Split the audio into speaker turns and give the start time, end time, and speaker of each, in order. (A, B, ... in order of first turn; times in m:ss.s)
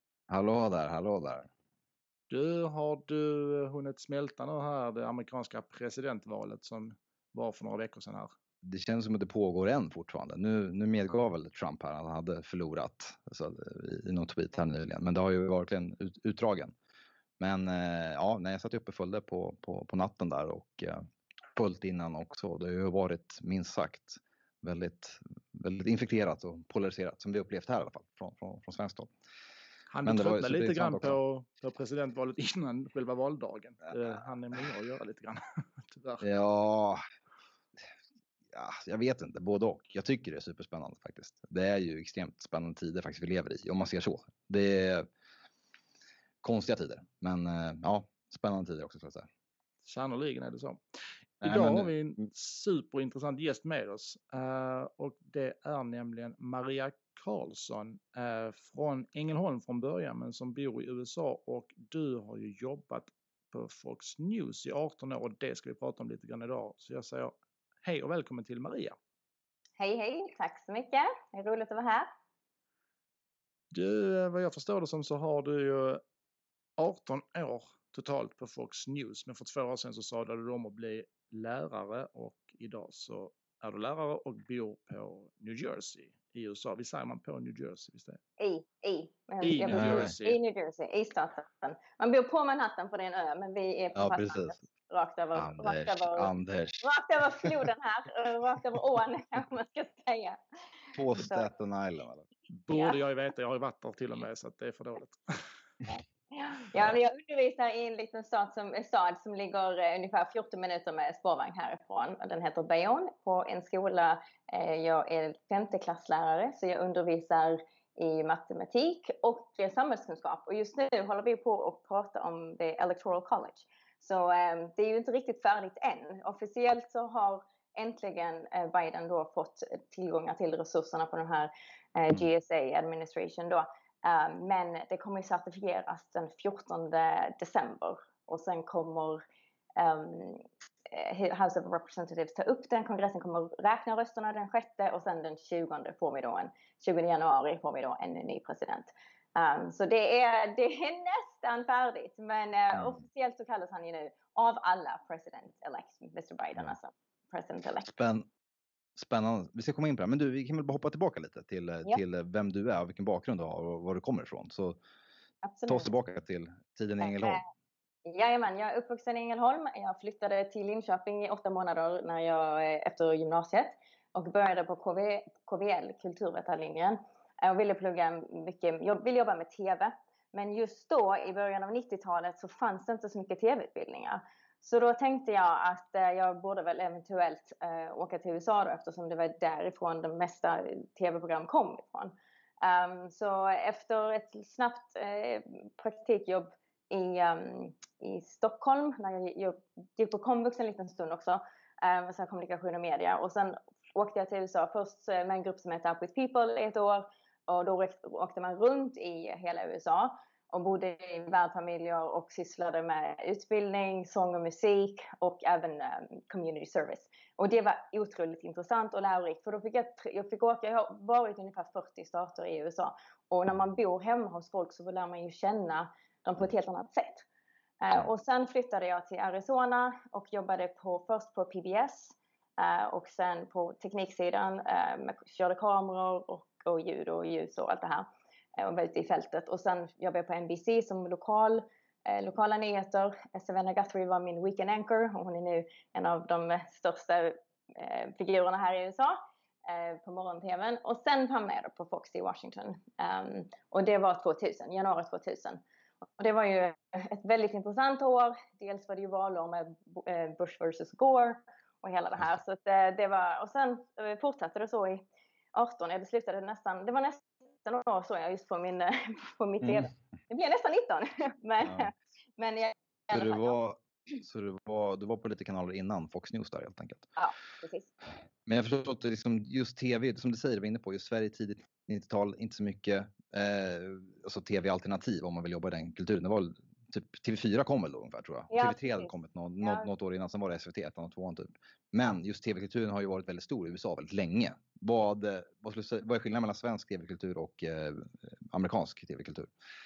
0:00.3-0:01.5 A
0:02.3-0:08.3 B
0:08.6-0:16.7 A
0:17.4-0:29.1 A
0:29.9-0:36.2 B
0:30.0-0:31.2 A
0:36.2-0:37.0 A
0:38.5-0:45.1 A
0:46.4-0:49.3 A
0:49.8-0:50.8 B
0:51.4-1:09.0 B
0:51.4-0:51.9 A
1:09.8-1:12.1 C
1:13.7-1:16.0 B
1:16.8-1:28.2 B
1:28.4-1:40.4 C
1:29.4-1:30.4 B
1:29.7-1:30.1 A
1:34.0-1:34.6 A
1:35.3-1:36.9 A
1:40.9-1:41.5 C
1:40.9-1:42.3 A
1:42.5-1:45.4 B
1:42.7-1:43.0 C
1:45.9-2:19.2 C
2:19.8-2:37.9 C
2:37.9-2:38.3 A
2:39.0-2:44.8 A
2:45.4-2:45.9 C
2:45.7-2:47.4 A
2:47.0-2:47.4 C
2:48.0-3:47.2 C
3:47.8-4:15.6 C
4:16.2-4:33.5 C
4:33.1-4:37.1 A
4:37.2-4:37.9 C
4:38.4-4:59.5 A
4:48.5-4:49.9 C